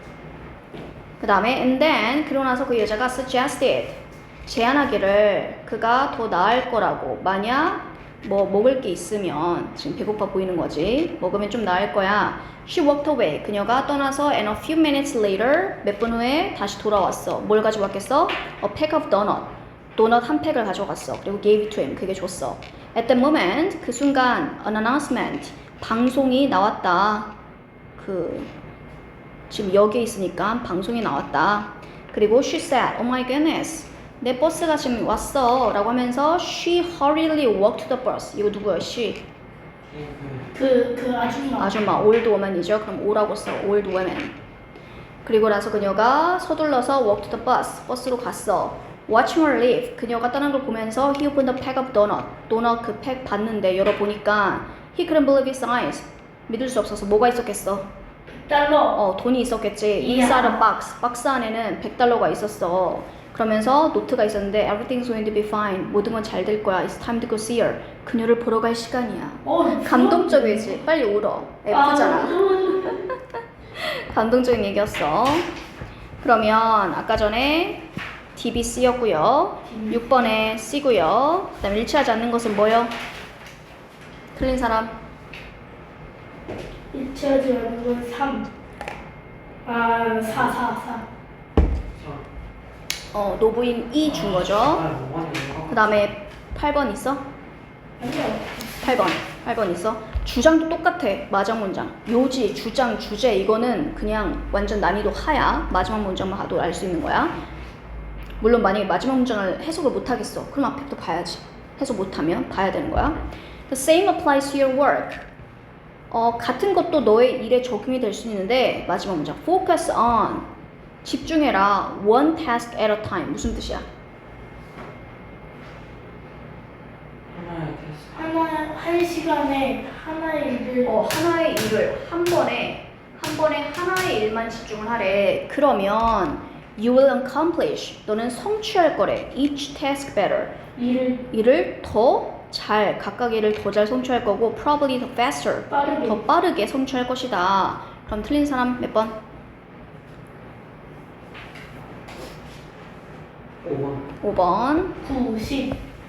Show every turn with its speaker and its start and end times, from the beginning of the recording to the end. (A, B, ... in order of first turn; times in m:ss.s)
0:01.2-0:27.4 A
0:28.0-0:28.5 A
0:29.5-0:39.2 A
0:39.9-0:40.6 B
0:40.6-0:41.8 C
0:41.6-0:44.4 A
0:45.2-0:57.9 A
0:58.3-0:59.0 C
0:59.0-1:13.0 A
1:00.0-1:00.6 C
1:09.4-1:10.8 C
1:11.7-1:13.0 C
1:13.8-1:15.5 A
1:16.2-1:22.9 A
1:19.7-1:20.2 C
1:24.4-1:25.0 A
1:26.9-1:28.5 C
1:29.6-1:31.1 C
1:31.9-1:32.3 B
1:33.1-1:34.8 A
1:34.0-1:36.0 B
1:35.7-1:37.2 A
1:38.0-1:38.8 C
1:38.8-1:47.4 A
1:48.4-1:55.3 A
1:56.1-2:00.5 A
2:01.0-2:03.9 A
2:07.3-2:08.3 B
2:08.2-2:11.0 C
2:10.8-2:20.6 A
2:20.8-2:21.3 C
2:21.3-2:29.2 A
2:25.7-2:26.2 C
2:33.6-2:34.1 B
2:34.2-2:35.0 A
2:35.0-2:35.8 C